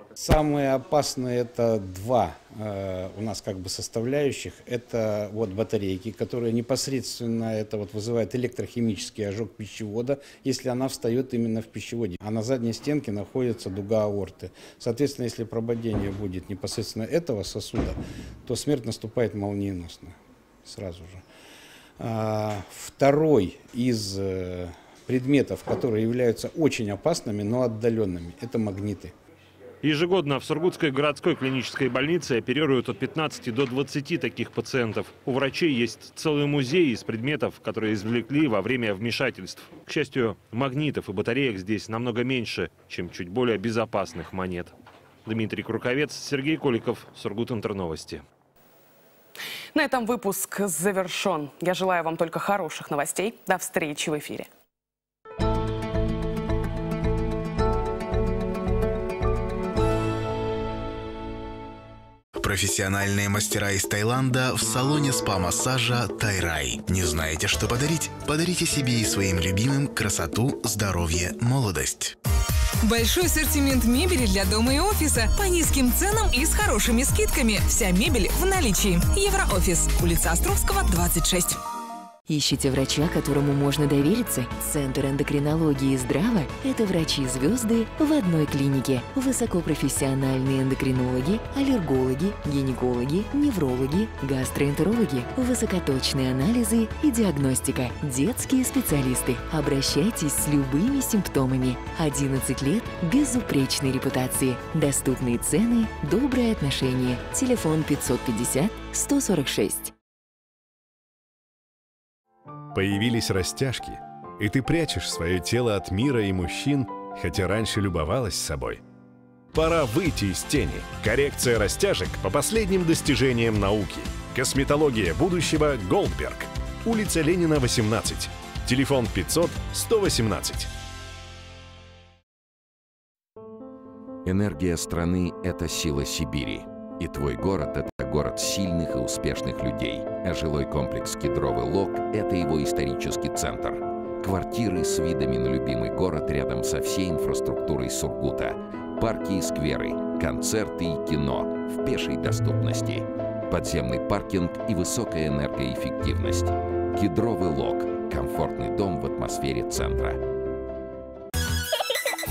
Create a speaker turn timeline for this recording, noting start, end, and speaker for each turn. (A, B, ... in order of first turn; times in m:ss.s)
0:00.2-0:20.1 A
0:20.6-0:21.2 A
0:22.0-0:29.1 A
0:29.8-0:44.7 B
0:45.2-0:48.2 B
0:49.7-0:54.5 C
1:02.4-1:12.2 D
1:12.8-1:21.6 E
1:22.3-1:49.9 F
1:52.7-1:58.8 G
1:59.5-2:10.7 G
2:14.2-2:40.2 H